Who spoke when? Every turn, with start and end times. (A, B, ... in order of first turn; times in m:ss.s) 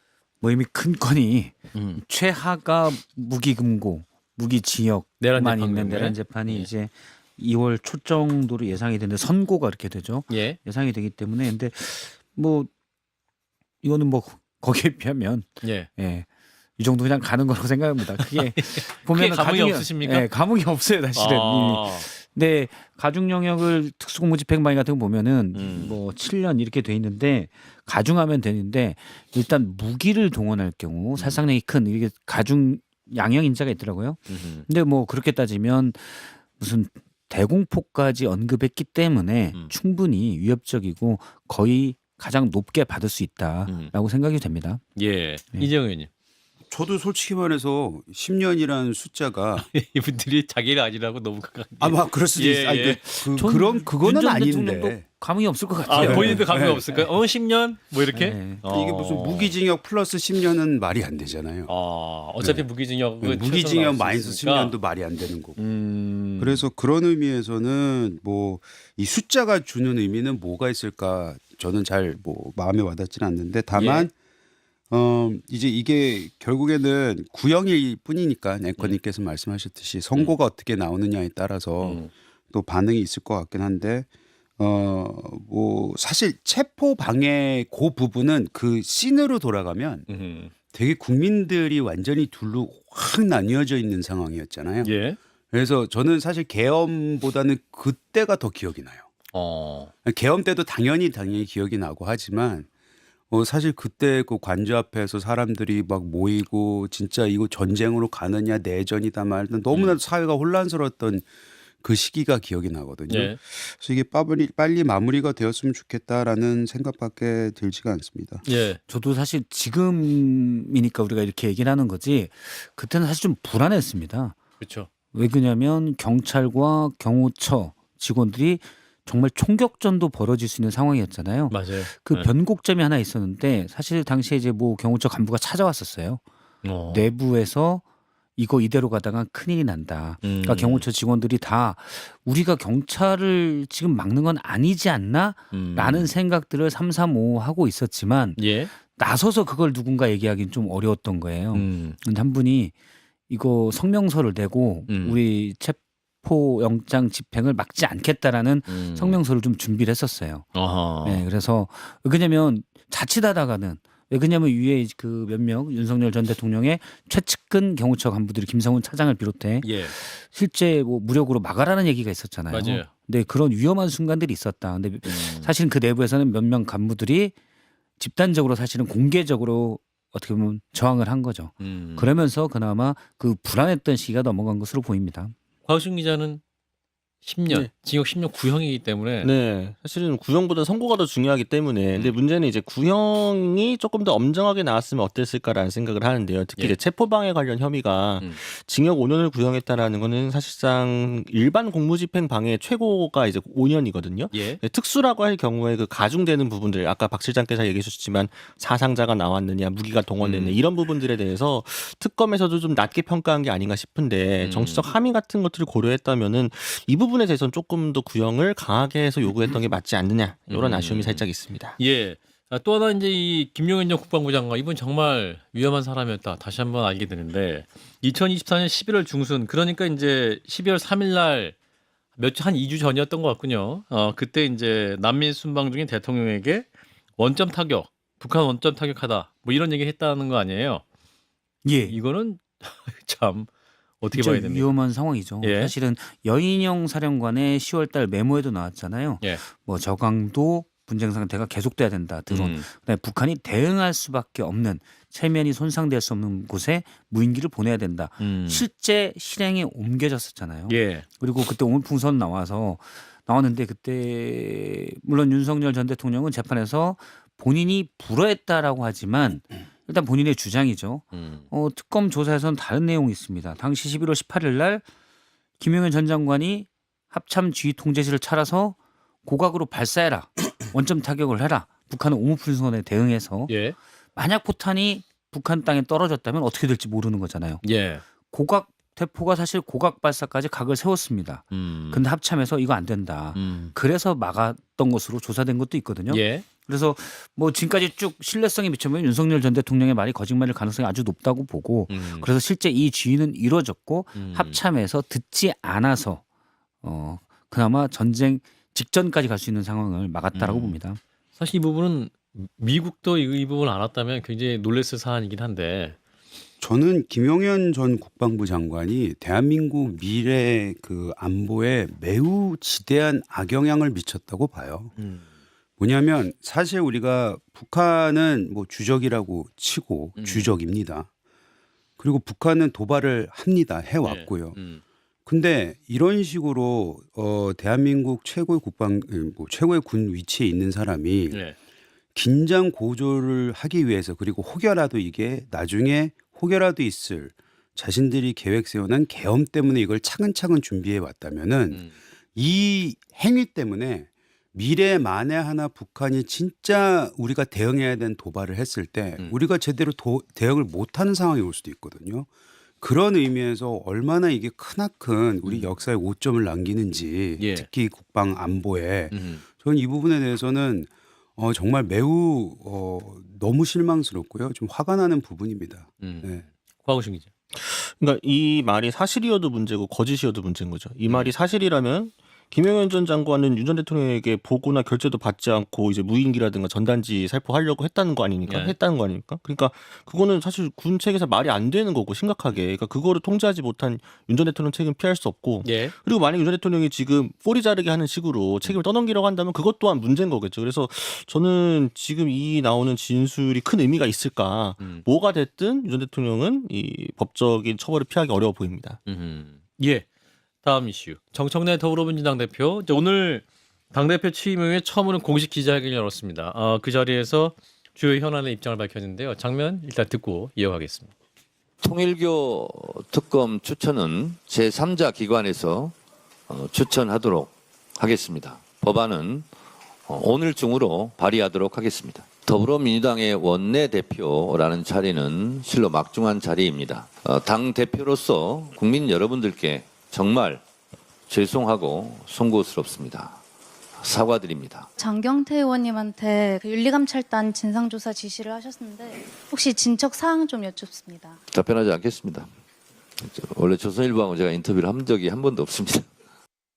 0:00.4-0:12.7 A
0:01.7-0:02.0 B
0:05.2-0:06.7 B
0:10.3-0:10.6 B
0:13.8-0:16.3 A
0:15.6-0:15.9 B
0:16.8-0:44.8 A
0:18.2-0:20.3 B
0:21.2-0:22.1 B
0:25.5-0:26.0 B
0:34.3-0:34.7 B
0:43.7-0:43.9 B
0:45.0-0:46.1 B
0:46.7-0:49.7 C
0:49.6-0:53.0 B
0:51.8-0:55.1 C
0:53.3-0:57.1 A
0:55.9-0:59.6 B
0:55.9-0:56.8 C
0:58.1-0:58.6 A
0:58.7-1:01.7 C
1:01.7-1:04.7 B
1:02.4-1:05.6 C
1:05.6-1:06.7 B
1:06.4-1:14.2 C
1:13.7-1:14.1 B
1:14.9-1:30.1 C
1:21.8-1:22.1 B
1:30.1-1:30.5 B
1:30.7-1:34.9 C
1:34.8-1:35.2 B
1:35.5-1:39.1 C
1:39.3-1:39.9 B
1:40.0-1:42.7 C
1:43.3-1:51.3 C
1:49.7-1:50.0 B
1:51.8-1:58.4 C
1:53.1-1:53.4 B
1:58.4-1:58.8 B
1:58.9-2:04.4 A
2:04.6-2:04.9 B
2:05.1-2:16.2 A
2:11.5-2:12.3 B
2:16.6-2:17.0 B
2:16.9-2:17.8 A
2:18.4-2:32.7 A
2:20.2-2:20.8 B
2:25.5-2:26.1 B
2:28.4-2:28.7 B
2:31.5-2:32.0 B
2:33.3-2:40.5 A
2:34.9-2:35.2 B
2:38.7-2:39.2 B
2:40.6-2:41.2 B
2:41.0-2:57.4 A
2:49.6-2:50.0 B
2:52.5-2:52.9 B
2:55.0-2:55.5 B
2:58.0-3:05.3 A
3:01.6-3:02.1 B
3:05.6-3:06.4 B
3:07.2-3:09.3 B
3:09.2-3:41.8 D
3:24.3-3:24.6 B
3:30.2-3:30.6 B
3:34.4-3:34.9 B
3:40.5-3:41.2 B
3:41.8-3:51.6 B
3:52.2-4:00.8 B
4:01.6-4:02.0 A
4:01.9-4:03.5 B
4:04.0-4:04.7 B
4:04.1-4:34.8 A
4:05.4-4:05.7 B
4:12.3-4:12.7 B
4:18.2-4:18.6 B
4:20.7-4:21.1 B
4:31.1-4:31.4 B
4:35.6-4:43.5 A
4:43.5-4:43.8 B
4:44.2-4:47.6 A
4:47.6-4:48.0 B
4:48.2-5:06.2 A
4:51.5-4:52.0 B
4:53.4-4:53.7 B
4:56.1-4:56.4 B
5:01.9-5:02.3 B
5:04.2-5:04.6 B
5:06.8-5:11.0 A
5:10.3-5:10.8 B
5:11.4-5:16.0 B
5:16.6-5:24.9 C
5:25.0-5:25.2 B
5:25.8-5:31.1 C
5:30.2-5:30.5 B
5:32.0-5:34.6 C
5:34.0-5:34.8 B
5:35.3-5:41.4 C
5:41.3-5:41.6 B
5:42.2-6:02.3 C
6:02.8-6:16.4 C
6:05.4-6:05.7 B
6:07.4-6:07.7 B
6:09.1-6:09.4 B
6:16.0-6:16.3 B
6:16.8-6:17.3 B
6:17.6-6:49.0 D
6:21.1-6:21.3 B
6:28.5-6:28.8 B
6:35.6-6:35.9 B
6:44.8-6:45.0 B
6:49.1-6:50.0 B
6:50.6-7:01.1 B
7:01.8-7:05.9 E
7:06.5-7:09.5 E
7:10.1-7:20.6 E
7:21.3-7:23.4 E
7:24.0-7:24.9 E
7:25.0-7:31.4 F
7:31.5-7:32.5 E
7:33.2-7:36.1 E